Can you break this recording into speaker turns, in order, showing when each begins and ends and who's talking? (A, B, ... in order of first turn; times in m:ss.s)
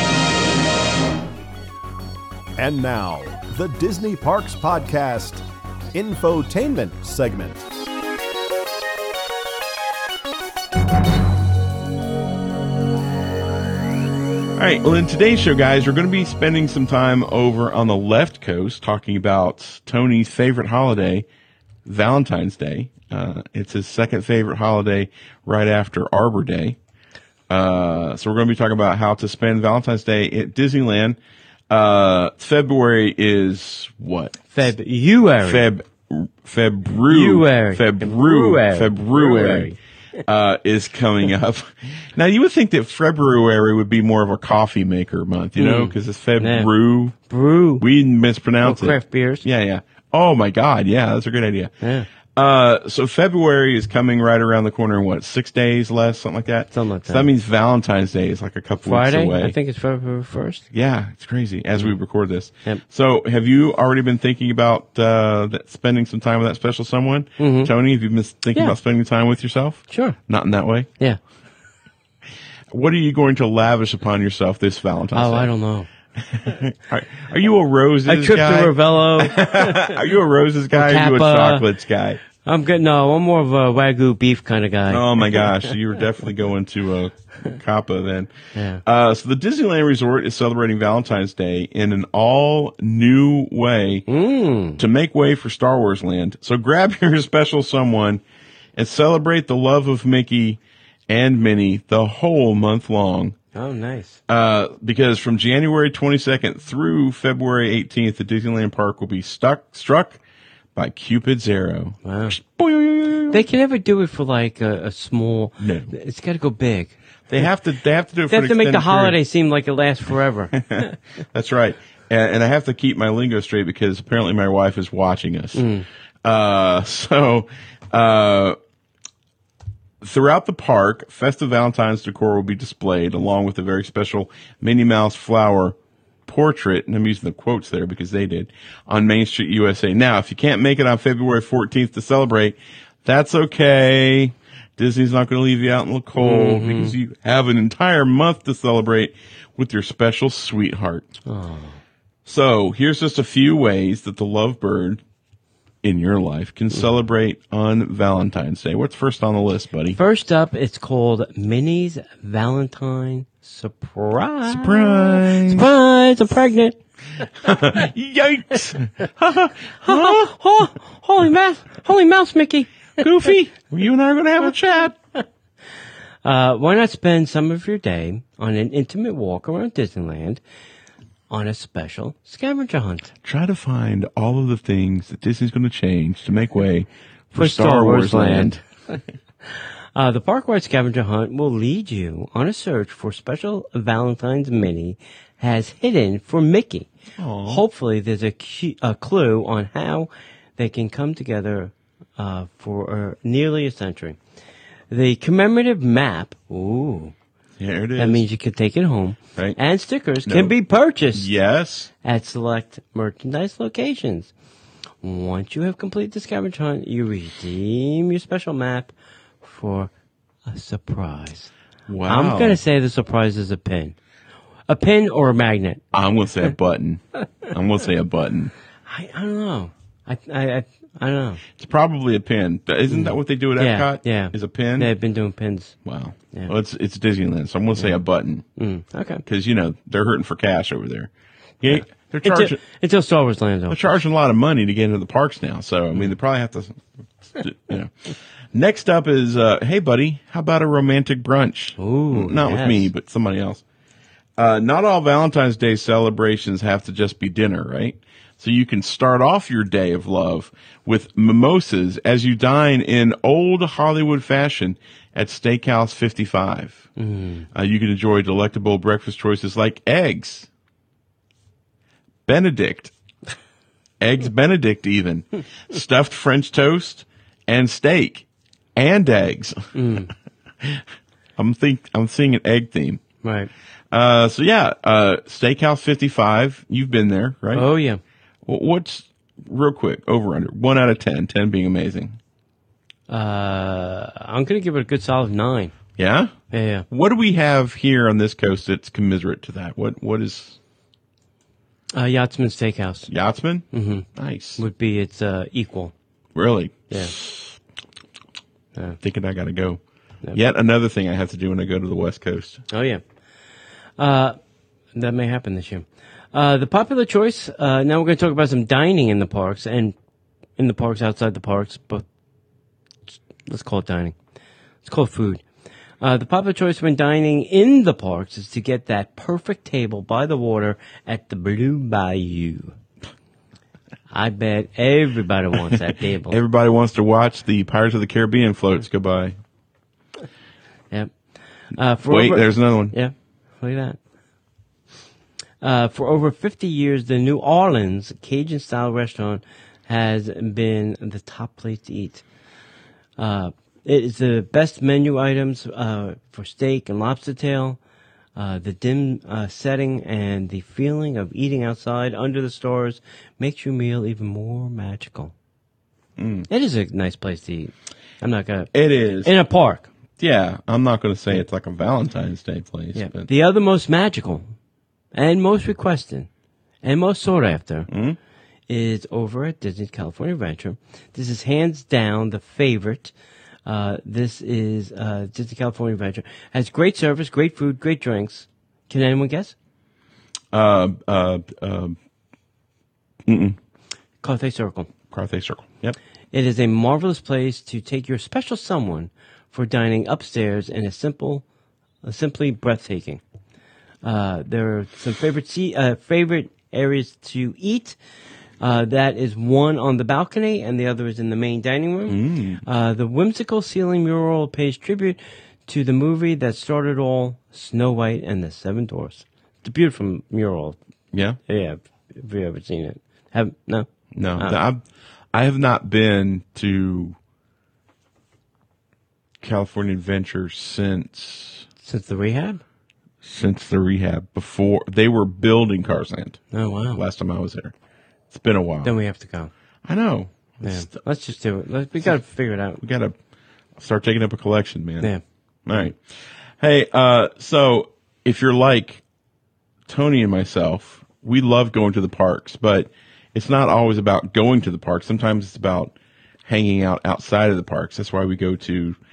0:02.6-0:07.7 A
0:14.6-0:21.2 B
0:21.8-0:26.8 B
0:27.5-0:31.2 B
0:31.7-0:34.6 B
0:34.5-0:35.7 C
0:35.4-0:39.7 B
0:37.1-0:39.8 C
0:40.3-0:47.2 B
0:45.6-0:46.7 C
0:47.3-0:47.8 C
0:47.8-0:51.7 B
0:48.6-0:49.4 C
0:51.8-0:52.1 C
0:52.4-0:59.6 B
0:56.7-0:57.3 C
0:58.8-1:00.6 C
1:00.7-1:10.9 B
1:07.4-1:07.7 C
1:09.9-1:10.2 C
1:12.7-1:15.5 B
1:15.2-1:15.9 C
1:16.2-1:22.2 B
1:18.1-1:20.0 C
1:20.7-1:21.6 C
1:22.4-1:25.7 C
1:24.9-1:28.3 B
1:28.6-1:28.8 C
1:28.8-1:34.1 B
1:34.1-1:34.8 C
1:34.8-1:38.2 B
1:38.8-1:43.4 B
1:43.5-1:44.2 C
1:44.3-1:50.2 B
1:50.8-1:53.4 B
1:52.0-1:52.4 C
1:53.3-1:56.9 C
1:55.6-1:55.9 B
1:57.3-1:59.2 B
1:58.3-2:00.9 C
2:00.6-2:05.7 B
2:05.6-2:05.8 C
2:06.2-2:08.6 B
2:10.0-2:15.8 B
2:16.3-2:31.1 B
2:26.2-2:26.9 C
2:31.2-2:31.8 C
2:32.2-2:35.0 B
2:35.8-2:40.0 B
2:39.9-2:47.5 C
2:44.5-2:45.7 B
2:47.4-2:50.3 B
2:49.8-2:53.0 C
2:53.0-2:55.0 B
2:56.2-3:00.4 C
3:01.3-3:03.1 C
3:03.2-3:08.6 B
3:07.3-3:08.6 C
3:09.5-3:16.9 C
3:17.2-3:17.6 B
3:17.5-3:24.2 C
3:24.9-3:27.1 C
3:27.6-3:28.2 B
3:28.0-3:31.3 C
3:30.2-3:30.5 B
3:31.1-3:31.9 B
3:32.0-3:34.3 C
3:35.0-3:39.9 C
3:40.5-3:41.5 C
3:41.9-3:42.6 B
3:42.1-3:43.9 C
3:44.7-3:45.8 C
3:45.9-3:48.5 B
3:48.8-3:51.4 C
3:51.6-3:54.9 B
3:52.9-3:55.7 C
3:55.8-3:58.5 B
3:58.6-3:59.2 C
3:59.3-4:01.1 B
4:01.6-4:02.6 B
4:01.6-4:04.0 C
4:03.7-4:13.6 B
4:11.8-4:12.9 C
4:14.4-4:26.9 B
4:27.0-4:27.5 C
4:27.5-4:30.5 B
4:32.2-4:32.9 B
4:34.0-4:39.7 B
4:39.7-4:40.1 C
4:41.4-4:43.0 B
4:43.2-4:43.5 C
4:43.9-4:47.7 B
4:47.5-4:48.0 C
4:48.4-4:52.2 B
4:53.1-4:55.7 C
4:56.0-4:56.3 B
4:56.5-4:56.8 C
4:56.9-5:00.6 B
5:01.9-5:03.1 C
5:03.1-5:04.6 B
5:03.7-5:04.0 C
5:04.6-5:05.9 C
5:06.3-5:07.6 B
5:09.0-5:09.8 B
5:10.3-5:12.6 B
5:12.7-5:13.0 C
5:14.0-5:14.4 C
5:14.9-5:20.0 C
5:20.6-5:22.0 C
5:23.1-5:24.1 C
5:24.8-5:25.4 C
5:26.0-5:32.8 C
5:34.1-5:36.4 C
5:36.3-5:39.4 B
5:41.7-5:44.0 C
5:42.1-5:42.9 B
5:45.6-5:52.2 C
5:53.2-5:57.8 C
5:58.4-6:05.3 C
6:06.2-6:06.5 B
6:06.5-6:08.7 C
6:08.7-6:09.3 B
6:09.2-6:09.9 C
6:10.2-6:13.3 B
6:12.9-6:14.5 C
6:15.1-6:16.3 C
6:16.8-6:17.9 C
6:17.9-6:18.2 B
6:18.7-6:23.1 C
6:23.6-6:29.5 C
6:30.5-6:32.0 B
6:33.2-6:33.6 B
6:34.2-6:34.9 C
6:35.1-6:36.0 B
6:36.3-6:41.4 C
6:42.0-6:43.2 C
6:44.0-6:48.0 C
6:48.6-7:00.8 C
6:52.1-6:52.6 B
7:01.1-7:01.4 B
7:01.5-7:04.6 C
7:04.1-7:04.8 B
7:05.3-7:07.2 B
7:09.4-7:11.7 B
7:11.8-7:12.6 C
7:13.2-7:17.7 B
7:16.5-7:17.0 C
7:18.3-7:18.9 B
7:18.8-7:19.5 C
7:19.8-7:21.0 B
7:20.6-7:22.8 C
7:22.8-7:23.1 B
7:23.8-7:25.1 B
7:25.7-7:26.0 B
7:26.6-7:29.0 B
7:29.9-7:35.9 B
7:36.4-7:39.0 B